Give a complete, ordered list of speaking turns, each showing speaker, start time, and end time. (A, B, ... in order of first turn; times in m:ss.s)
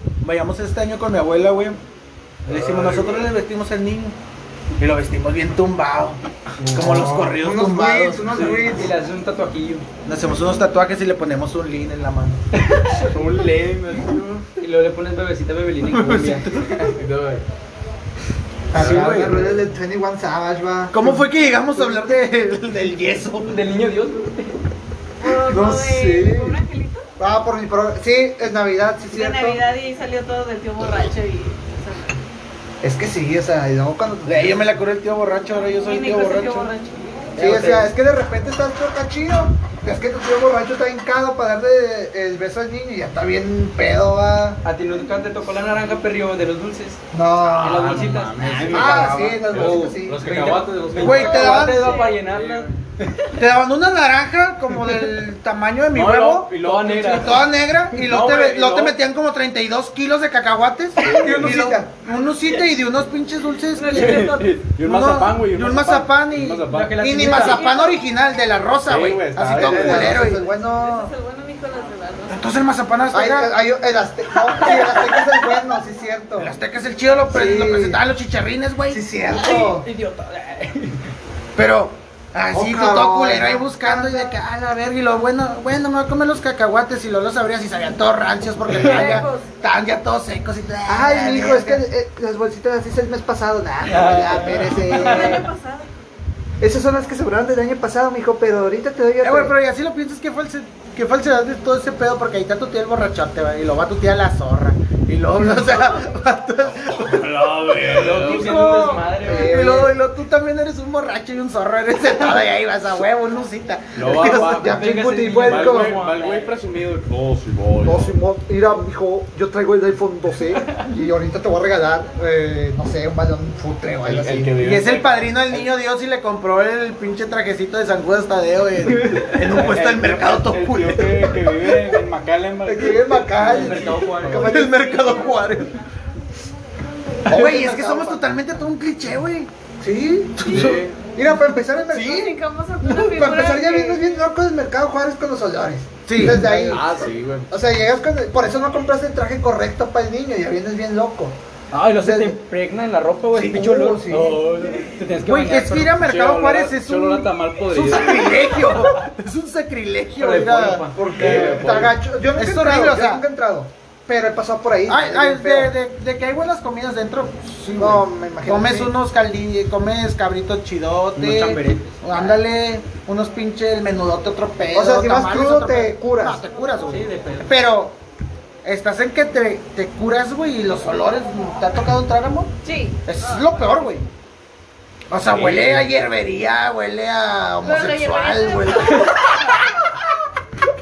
0:00.2-0:01.8 A
0:02.5-0:04.2 A
0:02.5-0:03.3 B
0:04.8-0:06.2 A
0:06.6-0:06.9 C
0:06.7-0:08.4 A
0:06.7-0:08.9 D
0:08.3-0:09.8 C
0:10.1-0:12.4 A
0:12.5-0:13.1 C
0:13.0-0:14.5 B
0:14.6-0:16.5 C
0:15.8-0:16.9 A
0:16.8-0:17.4 B
0:18.7-0:22.2 D
0:18.7-0:19.4 A
0:18.8-0:19.4 B
0:20.9-0:23.6 A
0:23.5-0:24.6 C
0:25.2-0:27.1 E
0:25.4-0:26.6 D
0:27.2-0:29.6 D
0:29.1-0:32.2 E
0:32.8-0:34.7 D
0:34.2-0:36.7 A
0:35.8-0:37.3 E
0:37.4-0:44.6 D
0:37.4-0:37.8 A
0:37.4-0:37.9 C
0:44.6-0:53.3 C
0:47.1-0:48.0 D
0:47.6-0:52.8 B
0:48.7-0:50.2 D
0:51.0-0:51.8 A
0:51.0-0:51.7 D
0:51.3-0:52.2 E
0:53.4-1:10.4 A
0:55.9-0:57.3 B
0:56.6-0:58.9 C
1:01.0-1:01.7 B
1:01.0-1:01.9 D
1:03.7-1:04.7 E
1:03.9-1:07.4 B
1:06.7-1:07.7 C
1:07.3-1:08.0 E
1:08.9-1:10.3 B
1:09.5-1:11.1 D
1:10.4-1:12.4 E
1:12.3-1:13.5 A
1:13.1-1:16.5 D
1:16.4-1:19.1 A
1:17.3-1:18.0 D
1:18.9-1:19.9 D
1:19.3-1:21.1 C
1:21.6-1:31.8 A
1:22.5-1:24.3 D
1:28.7-1:29.5 E
1:30.9-1:35.5 D
1:33.9-1:35.4 C
1:34.9-1:35.9 E
1:36.6-1:39.5 D
1:39.2-1:54.7 A
1:47.0-1:48.6 B
1:47.8-1:49.7 C
1:49.2-1:49.9 D
1:54.0-1:58.1 B
1:54.2-1:56.0 D
1:54.6-1:56.5 C
1:57.8-2:04.5 D
2:04.1-2:05.7 B
2:04.6-2:11.4 A
2:08.9-2:09.5 C
2:09.5-2:14.6 B
2:11.8-2:12.0 C
2:12.6-2:15.3 D
2:13.3-2:14.9 C
2:14.3-2:15.8 A
2:15.0-2:15.5 E
2:17.3-2:18.3 D
2:17.3-2:19.5 A
2:19.8-2:22.4 D
2:20.4-2:20.8 A
2:20.4-2:21.0 B
2:21.9-2:24.2 E
2:22.9-2:26.8 D
2:26.1-2:26.8 A
2:26.3-2:27.5 B
2:27.5-2:31.4 D
2:31.7-2:36.0 C
2:32.0-2:32.4 D
2:33.4-2:34.4 D
2:35.2-2:41.5 A
2:36.0-2:38.6 B
2:40.2-2:41.4 C
2:41.0-2:45.7 D
2:41.1-2:42.0 B
2:42.3-2:43.2 A
2:44.9-2:58.0 A
2:47.8-2:48.9 D
2:51.2-2:52.2 C
2:54.7-2:56.4 D
2:56.9-2:57.5 C
2:58.6-3:02.5 A
3:02.6-3:03.7 E
3:03.1-3:04.1 A
3:05.1-3:09.6 A
3:05.2-3:05.9 B
3:07.6-3:09.6 E